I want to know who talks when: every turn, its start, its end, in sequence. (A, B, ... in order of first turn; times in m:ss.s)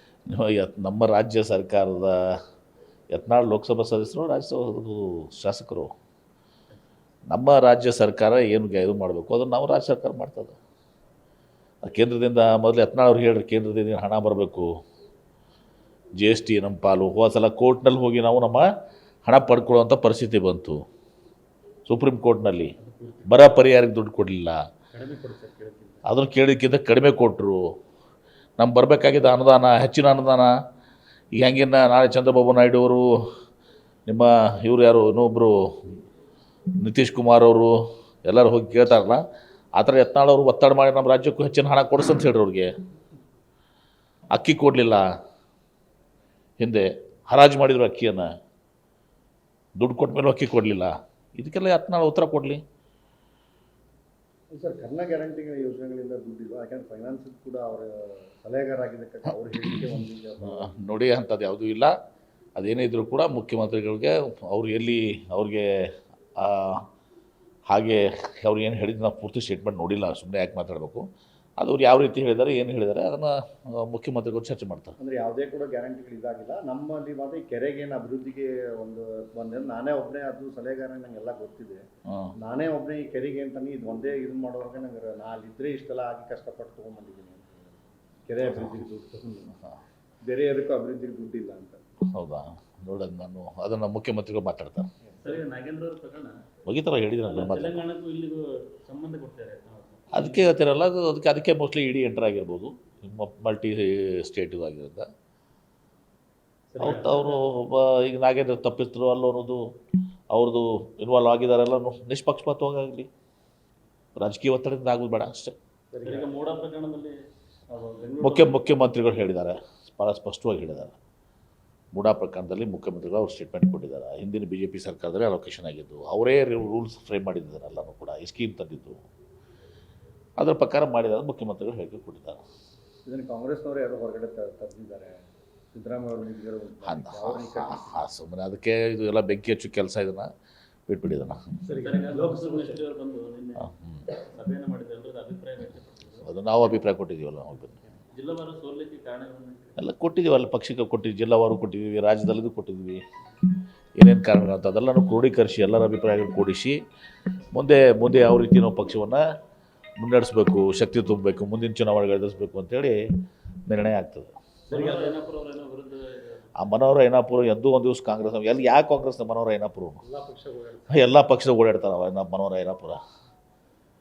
0:00.3-0:02.4 A
0:03.1-0:05.9 A
0:07.3-0:10.5 A
0:11.8-0:14.7 A
0:16.2-0:18.7 A
0:19.2-0:20.8 A
0:21.9-0:22.7 A
0:23.2-0:24.6 A
0:24.9-0:26.0 B
0:26.0-0:27.7 A
0:28.6-0:30.5 A
0:31.3-0:33.3 A
0:34.1-0:36.0 A
0:36.8-0:39.2 A
0:39.8-0:42.7 A
0:44.3-0:45.0 A
0:46.6-0:48.3 A
0:49.8-0:52.6 A
0:54.5-1:00.8 B
0:59.6-1:01.9 A
1:02.6-1:06.8 A
1:07.7-1:11.0 A
1:11.6-1:15.0 A
1:15.0-1:21.8 B
1:22.1-1:22.3 A
1:22.4-1:29.6 B
1:28.4-1:28.8 A
1:30.2-1:31.8 B
1:32.1-1:34.9 A
1:35.0-1:35.4 B
1:35.2-1:36.3 C
1:36.6-1:37.8 A
1:37.2-1:40.5 C
1:40.1-1:45.1 A
1:46.8-1:47.4 C
1:46.8-1:49.6 A
1:50.3-1:53.1 A
1:54.2-1:55.5 A
1:55.9-1:56.4 B
1:56.0-1:57.2 C
1:57.7-1:58.6 B
1:58.2-2:01.0 A
2:01.9-2:09.0 A
2:10.4-2:12.4 A
2:13.0-2:15.2 B
2:15.7-2:18.0 B
2:16.8-2:20.3 A
2:20.9-2:21.5 A
2:21.6-2:22.8 B
2:21.8-2:26.2 C
2:23.6-2:24.0 A
2:26.2-2:27.8 A
2:28.1-2:29.8 C
2:29.8-2:33.0 A
2:34.0-2:36.8 A
2:37.5-2:39.2 A
2:40.0-2:43.0 A
2:43.7-2:44.3 A
2:44.7-2:45.2 B
2:44.7-2:46.5 C
2:46.6-2:50.0 A
2:50.0-2:51.2 B
2:50.9-2:53.0 A